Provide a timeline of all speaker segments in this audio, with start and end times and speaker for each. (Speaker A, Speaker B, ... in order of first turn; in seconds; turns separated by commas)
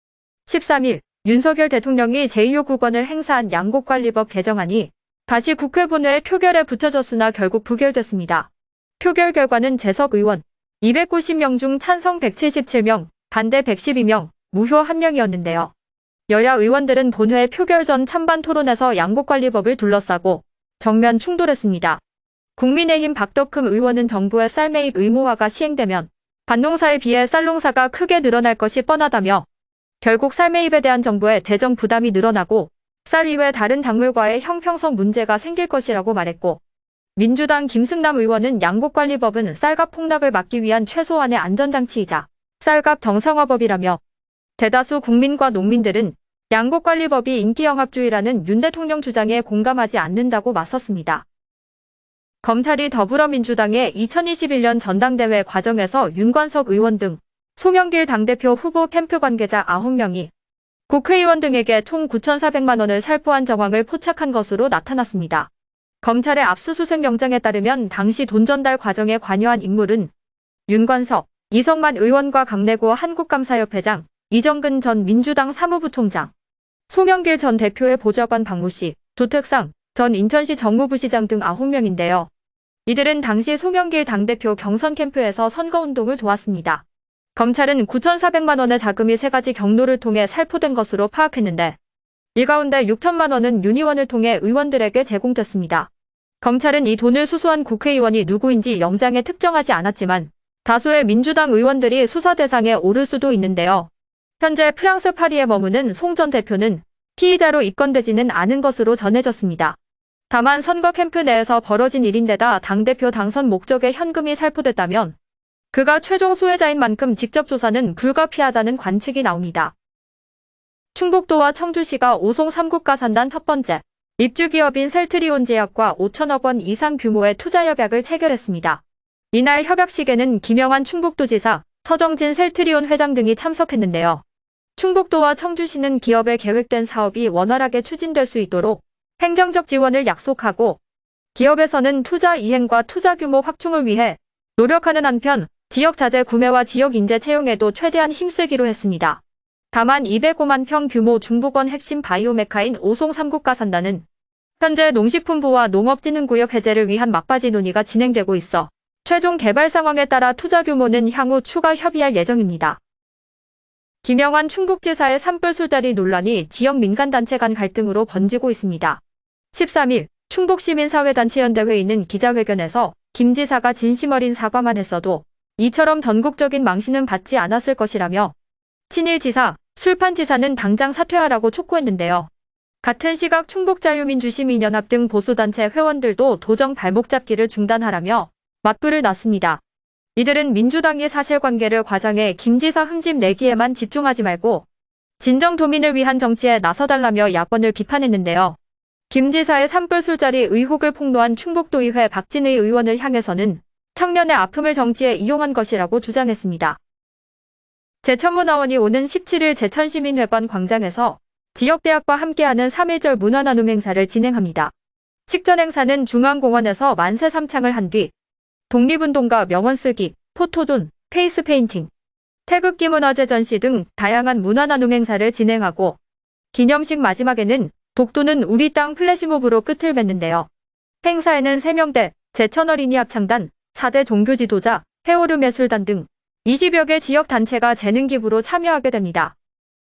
Speaker A: 0.5-8.5, Speaker A: 9.0-15.7, Speaker A: 16.3-22.0, Speaker A: 22.6-29.4, Speaker A: 30.0-36.6, Speaker A: 37.2-44.0, Speaker A: 44.6-51.2, Speaker A: 52.4-60.3, Speaker A: 60.9-65.5, Speaker A: 66.0-70.1, Speaker A: 70.7-76.3, Speaker A: 76.9-82.3, Speaker A: 82.8-86.8, Speaker A: 87.3-91.8, Speaker A: 92.3-95.9, Speaker A: 96.4-109.8, Speaker A: 110.3-115.1, Speaker A: 115.7-119.7, Speaker A: 120.9-134.2, Speaker A: 134.8-140.8, Speaker A: 141.3-149.2, Speaker A: 149.7-154.0, Speaker A: 154.6-162.8, Speaker A: 164.0-169.0, Speaker A: 169.5-178.3, Speaker A: 178.9-182.3, Speaker A: 182.8-189.6, Speaker A: 190.2-194.7, Speaker A: 195.2-198.6, Speaker A: 199.1-206.8, Speaker A: 208.0-214.7, Speaker A: 215.3-218.1, Speaker A: 218.7-221.9, Speaker A: 222.5-226.0, Speaker A: 226.5-230.5, Speaker A: 231.0-239.3